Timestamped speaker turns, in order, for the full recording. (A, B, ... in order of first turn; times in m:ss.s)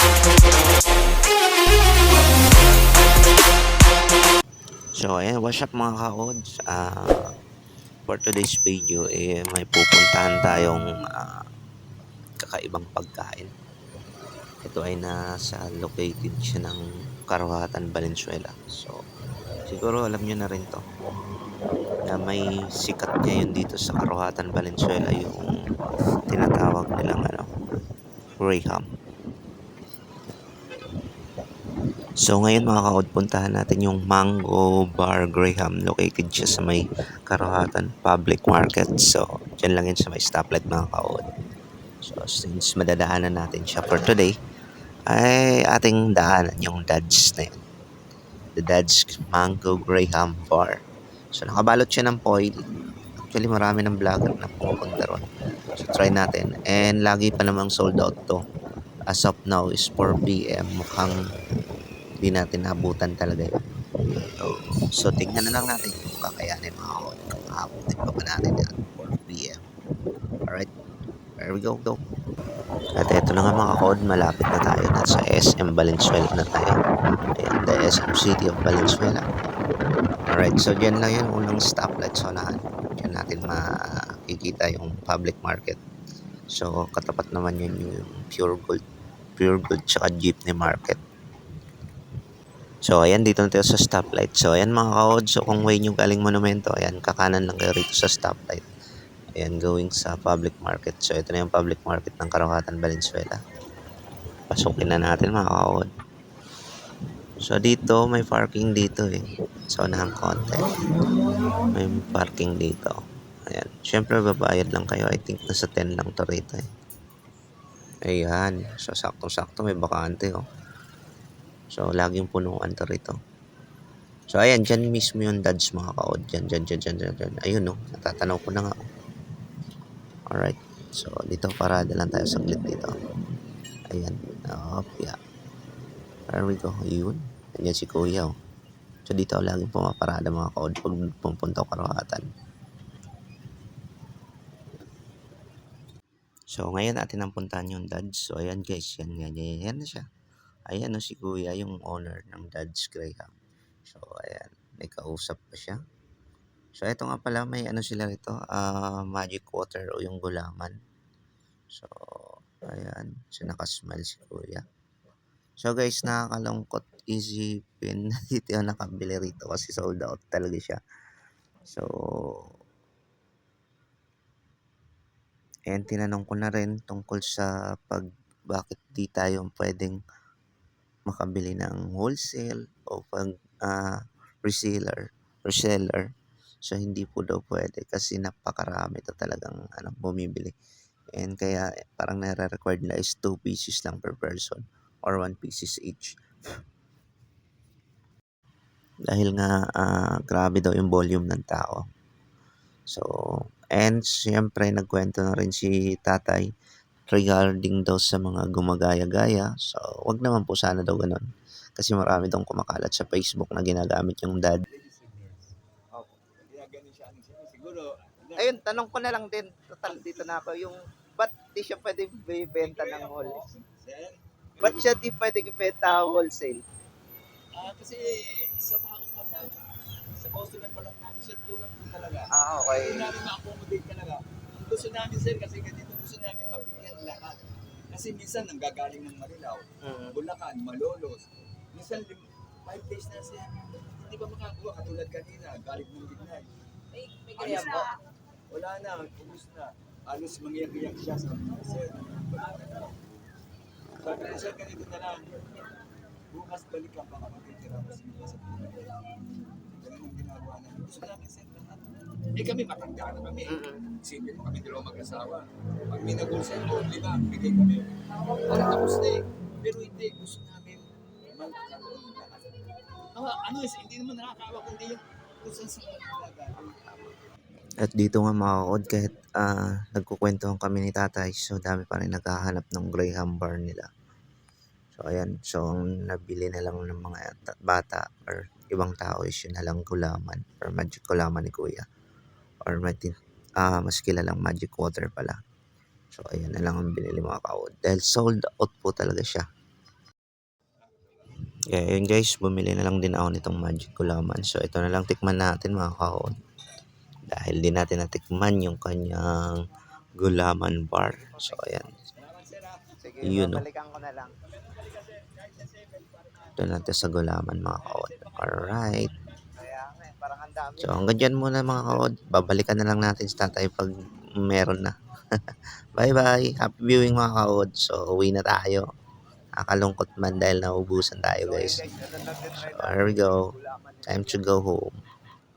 0:05.0-0:07.3 A
0:08.1-0:11.4 A
0:12.4-0:13.5 A
0:14.6-0:19.0 A
0:19.7-0:20.8 A
0:22.1-0:25.5 A
0:26.3-0:27.5 A
0:28.4-0:28.9 A
0:32.2-0:41.2 A
0:42.0-0:44.4 A
0:45.1-0:47.6 A
0:48.6-0:50.8 A
0:51.3-0:52.5 A
0:53.2-0:55.2 A
0:55.8-0:58.4 A
0:59.1-1:01.2 A
1:02.2-1:09.7 A
1:11.4-1:12.0 A
1:13.0-1:16.8 A
1:17.4-1:19.2 A
1:20.3-1:23.7 A
1:24.3-1:25.8 A
1:26.5-1:28.8 A
1:29.4-1:31.0 A
1:32.9-1:38.7 A
1:39.4-1:43.4 A
1:44.5-1:45.9 A
1:47.4-1:50.7 A
1:51.7-1:53.0 A
1:53.5-1:56.6 A
1:58.1-2:00.4 A
2:01.7-2:03.2 A
2:04.3-2:08.8 A
2:10.3-2:12.9 A
2:13.9-2:15.2 A
2:16.3-2:18.3 A
2:19.1-2:22.2 A
2:26.5-2:30.1 A
2:30.7-2:33.3 A
2:33.9-2:35.8 A
2:36.8-2:40.8 A
2:41.7-2:44.7 A
2:45.6-2:50.8 A
2:51.7-2:52.5 A
2:55.7-3:00.0 A
3:01.1-3:06.0 A
3:06.6-3:10.5 A
3:11.2-3:16.1 A
3:19.1-3:21.8 A
3:23.8-3:26.4 A
3:27.1-3:31.3 A
3:31.8-3:34.6 A
3:34.7-3:35.5 B
3:36.5-3:38.7 B
3:38.4-3:43.4 C
3:39.8-3:40.4 B
3:42.6-3:45.0 B
3:44.6-3:46.6 C
3:47.5-3:49.7 B
3:50.2-4:06.5 B
3:52.3-3:53.1 C
3:59.8-4:00.2 C
4:07.3-4:08.0 B
4:07.4-4:07.8 C
4:08.5-4:13.3 B
4:14.0-4:15.5 B
4:16.3-4:19.0 B
4:19.8-4:27.9 B
4:23.5-4:23.8 C
4:28.5-4:32.6 B
4:33.1-4:36.8 B
4:37.8-4:43.9 A
4:45.0-4:51.9 A
4:52.7-4:55.4 A
4:56.1-4:59.5 A
5:01.7-5:06.3 A
5:07.3-5:09.6 A
5:10.2-5:11.9 A
5:11.1-5:12.0 C
5:12.1-5:13.2 B
5:13.0-5:14.3 C
5:13.2-5:13.6 A
5:14.4-5:17.1 B
5:16.6-5:19.1 A
5:17.8-5:19.5 B
5:19.6-5:21.1 C
5:20.8-5:25.0 A
5:26.0-5:28.8 A
5:29.6-5:31.8 A
5:31.4-5:34.4 C
5:32.6-5:33.5 A
5:34.1-5:35.0 A